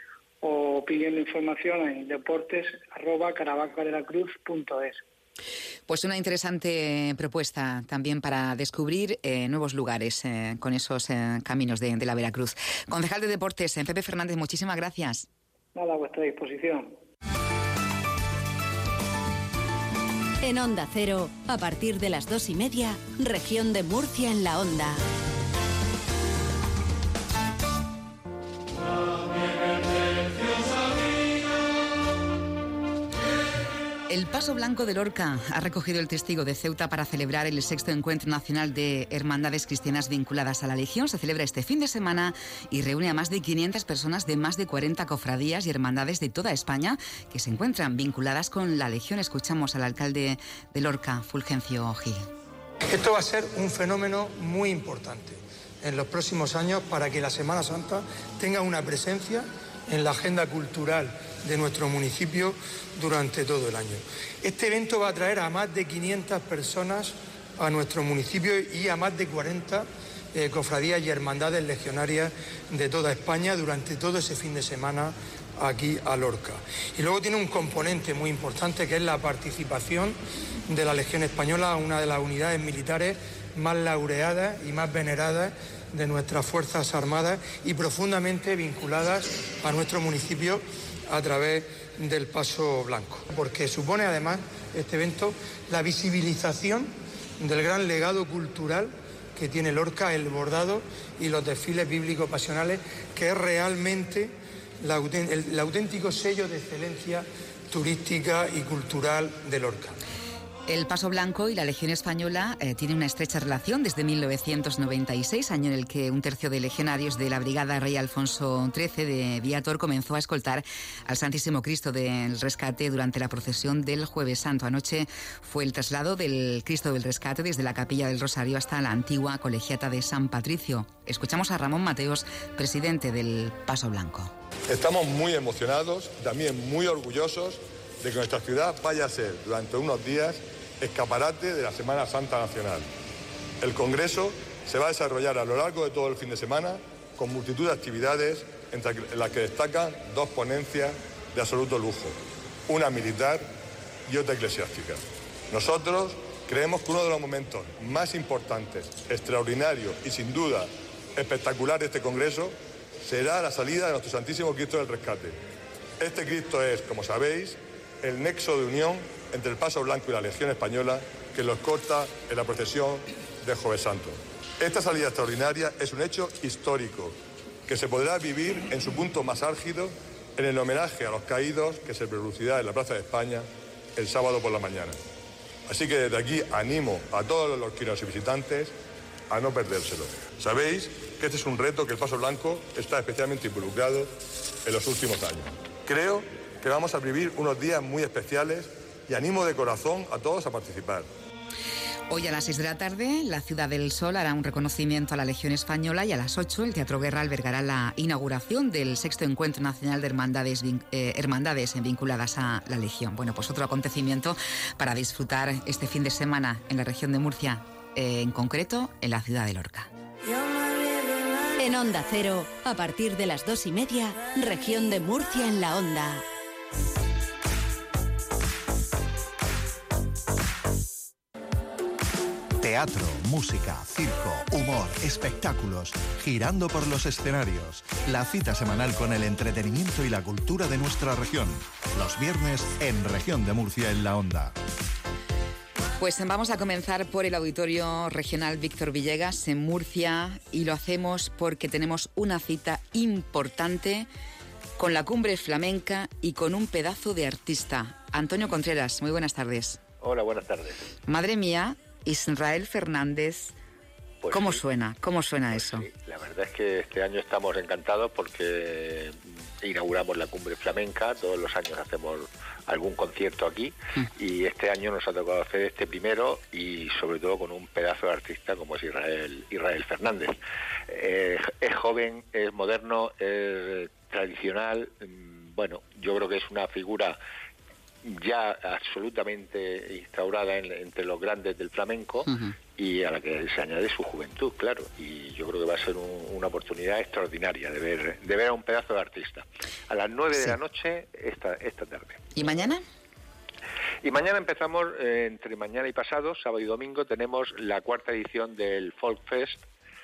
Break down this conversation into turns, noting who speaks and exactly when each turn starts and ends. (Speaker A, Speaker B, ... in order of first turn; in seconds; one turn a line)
Speaker A: 0.4-5.0
Speaker B: 5.9-15.3
Speaker A: 15.7-16.9
Speaker C: 20.4-25.0
Speaker B: 34.1-52.3
Speaker D: 52.9-110.0
Speaker B: 110.7-134.3
Speaker E: 134.7-142.8
Speaker E: 143.6-152.1
Speaker E: 152.7-153.4
Speaker E: 154.1-165.3
Speaker E: 166.0-177.2
Speaker E: 177.7-185.0
Speaker E: 185.7-188.7
Speaker E: 189.3-194.1
Speaker E: 194.6-201.1
Speaker B: 202.1-219.9
Speaker C: 221.6-226.2
Speaker F: 232.6-244.5
Speaker B: 246.0-254.1
Speaker B: 254.8-259.8
Speaker G: 260.0-260.9
Speaker B: 261.1-263.5
Speaker G: 264.2-264.6
Speaker B: 264.3-265.9
Speaker G: 265.5-280.4
Speaker G: 280.9-287.2
Speaker G: 288.0-302.3
Speaker B: 292.3-292.6
Speaker B: 302.3-302.8
Speaker G: 304.0-309.6